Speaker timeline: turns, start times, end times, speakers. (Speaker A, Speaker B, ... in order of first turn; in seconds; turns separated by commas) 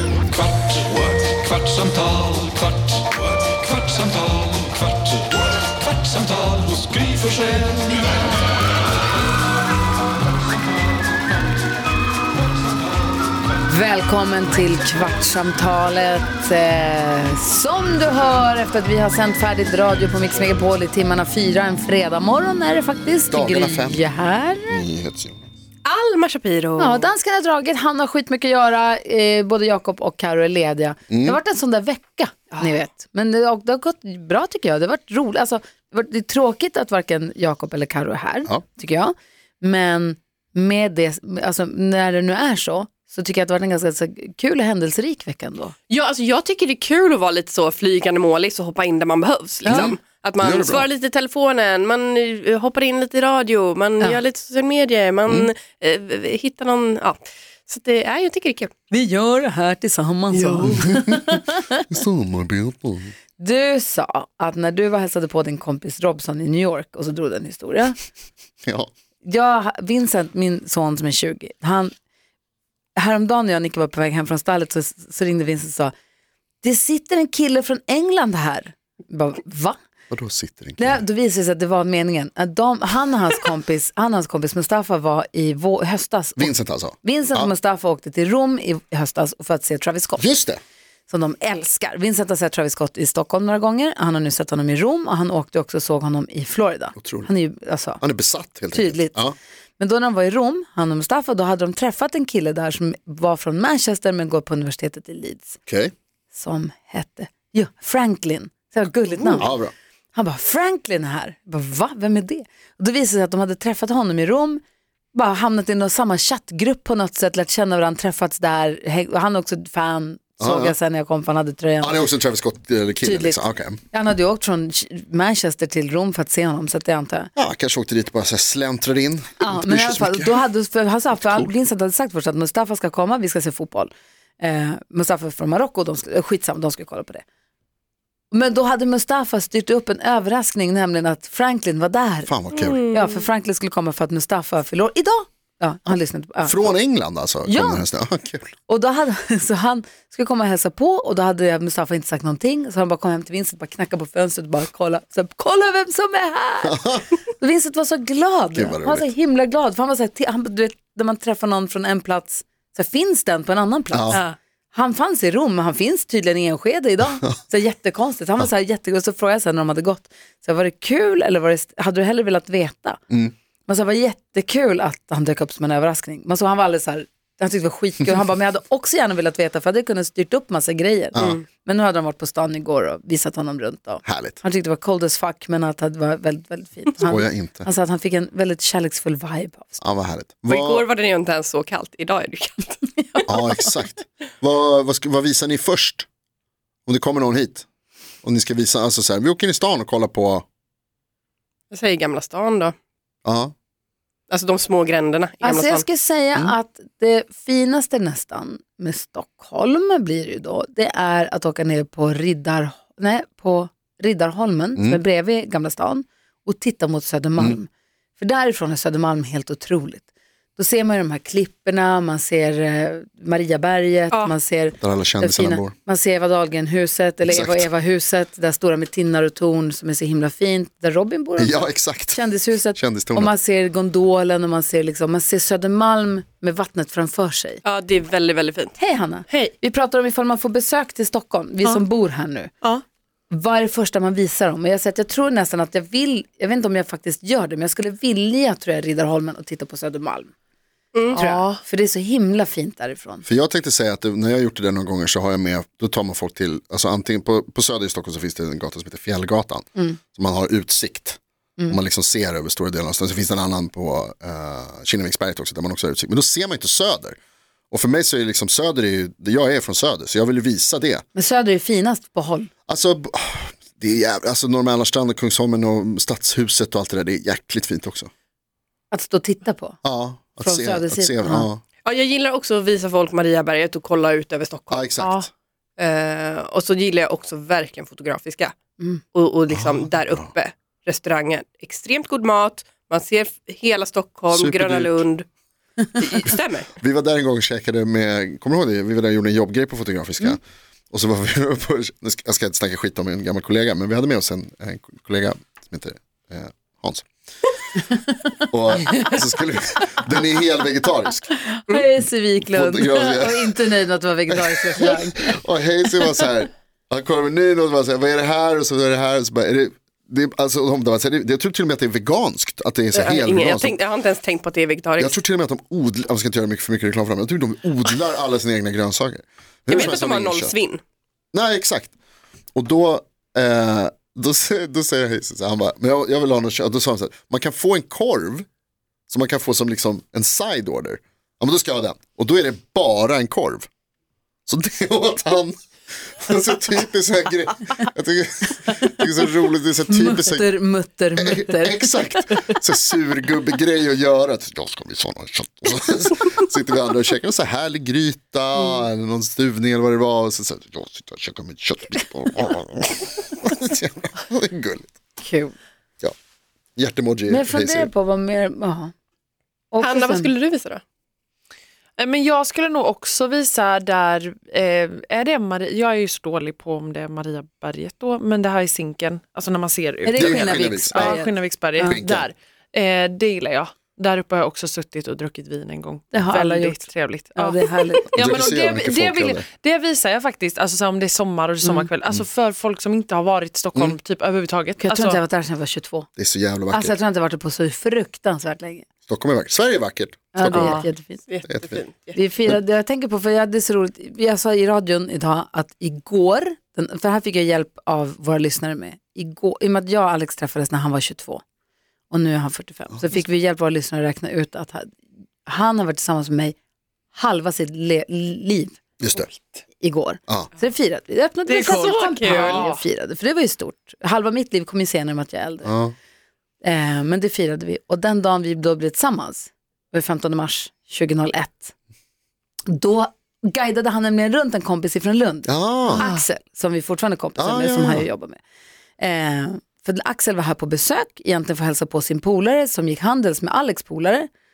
Speaker A: 0.4-5.1, Speaker A: 6.0-7.8, Speaker B: 13.7-24.8, Speaker C: 23.3-24.1, Speaker C: 24.7-25.5, Speaker D: 25.9-27.1, Speaker B: 26.8-45.8, Speaker C: 31.1-31.4, Speaker D: 45.9-58.7, Speaker B: 49.6-50.0, Speaker C: 49.7-50.9, Speaker B: 58.9-61.8, Speaker D: 60.3-60.9, Speaker C: 60.8-61.2, Speaker C: 61.9-63.1, Speaker B: 63.4-68.0, Speaker C: 68.7-68.9, Speaker B: 69.2-71.9, Speaker B: 73.0-75.9, Speaker B: 76.6-79.8, Speaker C: 80.1-81.0, Speaker B: 80.8-90.3, Speaker C: 86.4-87.5, Speaker C: 90.2-90.6, Speaker B: 91.1-98.0, Speaker C: 97.0-97.3, Speaker C: 98.0-99.4, Speaker B: 98.7-99.2, Speaker B: 99.8-105.6, Speaker C: 105.7-105.9, Speaker B: 106.3-109.6, Speaker C: 109.3-109.7, Speaker B: 110.1-114.6, Speaker B: 115.1-122.1, Speaker C: 120.4-120.8, Speaker C: 121.8-123.8, Speaker B: 123.0-127.3, Speaker C: 127.4-130.4, Speaker B: 129.4-137.2, Speaker C: 131.2-131.5, Speaker B: 138.3-142.3, Speaker C: 142.3-142.8, Speaker D: 142.5-143.2, Speaker B: 142.8-146.7, Speaker C: 146.4-148.5, Speaker B: 147.5-147.8, Speaker B: 148.7-164.2, Speaker C: 156.6-157.0, Speaker C: 158.5-159.1, Speaker C: 163.9-164.2, Speaker B: 164.7-173.0, Speaker B: 173.7-189.8, Speaker D: 181.2-181.4, Speaker C: 184.1-184.4, Speaker C: 187.0-187.7, Speaker C: 189.8-190.9, Speaker D: 190.5-193.3, Speaker C: 193.3-196.1, Speaker C: 196.9-197.7, Speaker C: 198.2-200.4, Speaker D: 201.7-202.7, Speaker C: 203.2-203.5, Speaker D: 204.3-205.8, Speaker B: 205.4-237.6, Speaker C: 214.8-215.0, Speaker C: 224.8-225.7, Speaker C: 227.3-227.7, Speaker C: 231.4-233.3, Speaker D: 237.7-238.8, Speaker B: 238.8-242.5, Speaker B: 243.3-250.3, Speaker D: 250.9-251.2, Speaker B: 251.1-253.2, Speaker E: 251.2-251.6, Speaker C: 253.2-267.2, Speaker C: 267.7-271.0, Speaker B: 271.1-272.5, Speaker C: 272.7-278.1, Speaker B: 278.9-279.8, Speaker C: 279.8-281.6, Speaker B: 280.4-281.5, Speaker D: 281.9-285.2, Speaker C: 284.7-285.2, Speaker D: 285.8-288.5, Speaker D: 289.1-295.3, Speaker C: 289.5-290.3, Speaker C: 294.3-295.1, Speaker D: 296.0-296.7, Speaker C: 296.8-300.4, Speaker C: 300.9-307.1, Speaker C: 308.5-311.3, Speaker B: 311.4-315.4, Speaker C: 312.4-313.7, Speaker C: 314.3-323.8, Speaker D: 322.9-325.2, Speaker C: 325.0-330.6, Speaker D: 329.7-330.8, Speaker C: 331.3-331.9, Speaker C: 332.6-338.5, Speaker C: 339.1-343.7, Speaker C: 344.5-350.5, Speaker B: 349.9-352.0, Speaker C: 351.2-364.9, Speaker B: 365.2-365.5, Speaker C: 366.8-367.9, Speaker B: 367.3-368.9, Speaker B: 369.7-370.3, Speaker D: 369.8-370.8, Speaker E: 372.0-395.2, Speaker B: 380.1-382.0, Speaker C: 380.2-381.2, Speaker C: 381.8-382.3, Speaker B: 386.1-388.1, Speaker C: 388.1-389.5, Speaker B: 391.6-391.9, Speaker B: 394.8-396.1, Speaker C: 396.2-396.9, Speaker B: 396.7-398.9, Speaker C: 399.1-400.8, Speaker B: 400.3-401.3, Speaker E: 400.6-400.9, Speaker D: 401.3-402.2, Speaker C: 401.5-401.8, Speaker B: 402.1-411.4, Speaker B: 412.1-416.6, Speaker B: 417.1-418.8, Speaker C: 419.0-419.3, Speaker B: 419.8-425.7, Speaker E: 421.5-422.8, Speaker D: 421.6-422.6, Speaker C: 425.6-425.9, Speaker B: 426.6-431.8, Speaker B: 432.7-438.4, Speaker C: 435.5-436.1, Speaker C: 437.4-438.1, Speaker B: 439.0-444.3